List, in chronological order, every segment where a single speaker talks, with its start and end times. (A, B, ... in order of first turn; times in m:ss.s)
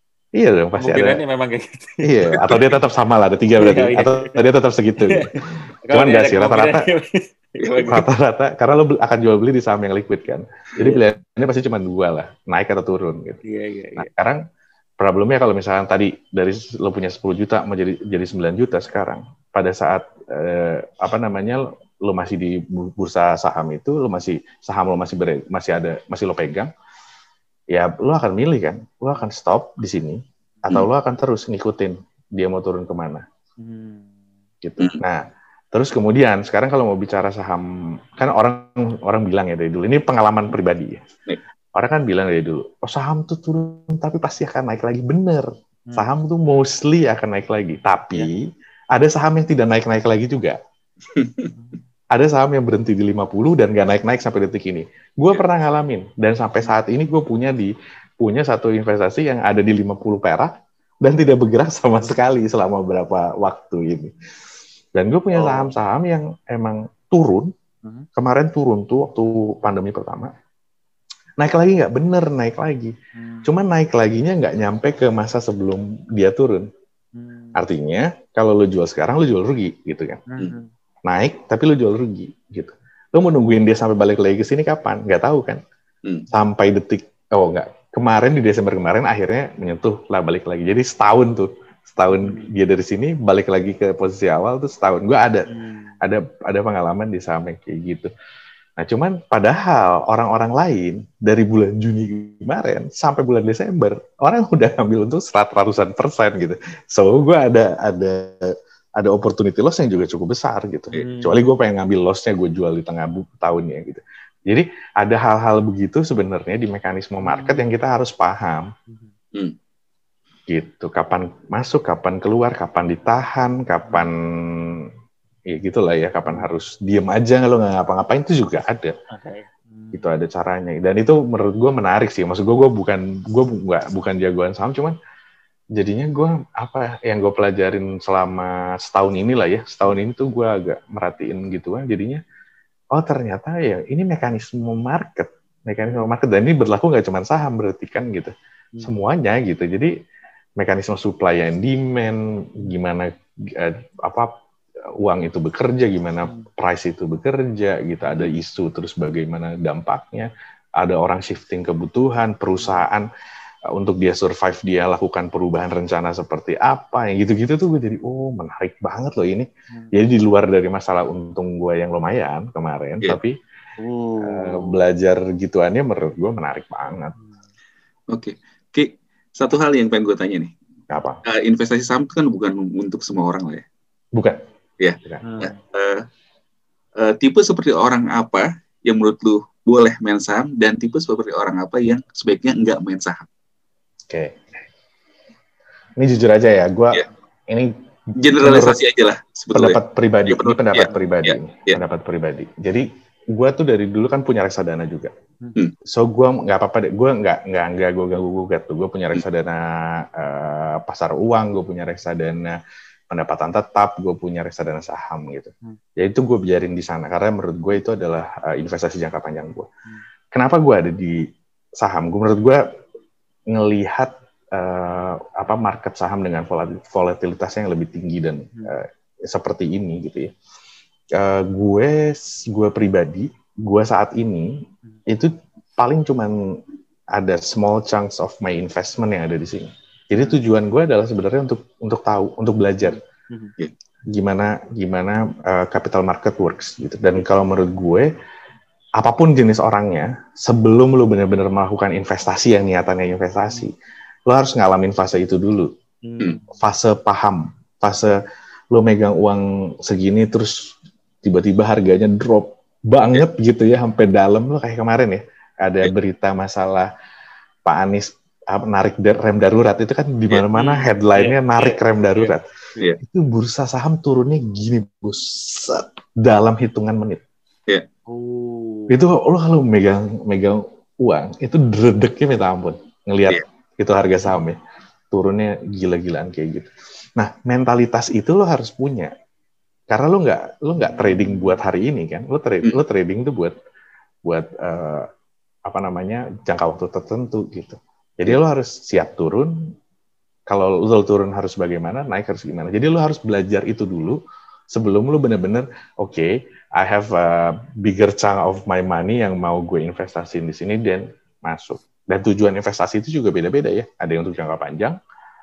0:00.4-0:01.2 A
0:00.8-0:02.1 B
0:02.0-0:05.3 A
0:03.6-0:04.4 B
0:05.0-0:08.0 B
0:05.9-0:06.8 A
0:07.6-0:07.9 C
0:07.8-0:13.4 A
0:10.8-0:11.1 B
0:13.4-0:14.1 B
0:14.0-0:14.4 A
0:15.0-0:26.7 A
0:27.7-0:33.2 A
0:33.6-0:34.1 B
0:34.6-0:35.2 A
0:35.7-0:41.0 A
0:41.7-0:50.6 A
0:51.1-0:51.5 C
0:52.1-1:04.1 A
1:04.9-1:07.5 A
1:05.3-1:05.7 B
1:08.2-1:10.3 A
1:11.4-1:16.7 A
1:13.1-1:13.5 B
1:17.1-1:17.6 B
1:17.5-1:20.2 A
1:20.3-1:20.7 B
1:21.1-1:25.6 A
1:26.3-1:35.5 A
1:32.1-1:32.5 B
1:35.5-1:36.0 B
1:36.0-1:38.1 A
1:38.8-1:58.7 A
1:50.9-1:51.5 B
1:57.2-1:57.7 B
2:00.5-2:04.9 A
2:05.5-2:08.9 A
2:09.1-2:10.2 B
2:09.9-2:14.9 A
2:15.7-2:22.2 A
2:22.9-2:28.3 A
2:28.8-2:29.9 A
2:30.6-2:34.3 A
2:35.0-2:43.1 A
2:42.6-2:42.8 B
2:43.7-2:53.4 A
2:53.8-2:54.8 B
2:54.2-2:57.1 A
2:58.1-3:00.5 C
3:00.9-3:01.2 A
3:01.2-3:03.6 C
3:04.8-3:06.1 C
3:05.2-3:05.6 B
3:07.0-3:13.3 C
3:14.1-3:14.4 A
3:16.0-3:17.7 A
3:18.2-3:21.8 C
3:18.3-3:18.8 A
3:19.5-3:25.1 A
3:25.8-3:32.6 A
3:33.1-3:39.7 A
3:40.3-3:41.2 A
3:41.8-3:42.6 A
3:43.5-3:50.3 A
3:51.1-3:54.5 A
3:55.1-3:56.6 A
3:57.1-4:03.0 A
4:00.1-4:00.4 B
4:02.8-4:03.5 B
4:04.1-4:08.1 A
4:09.0-4:13.7 A
4:14.3-4:15.7 A
4:16.0-4:16.6 B
4:16.6-4:18.1 A
4:18.7-4:20.7 A
4:21.2-4:26.9 A
4:27.6-4:32.5 A
4:30.5-4:32.8 B
4:33.0-4:37.2 A
4:38.1-4:39.0 B
4:38.9-4:44.6 A
4:45.1-4:49.1 A
4:49.9-4:53.5 A
4:50.8-4:51.6 B
4:54.2-4:55.1 A
4:55.7-4:59.5 A
5:00.5-5:04.2 A
5:04.7-5:15.0 A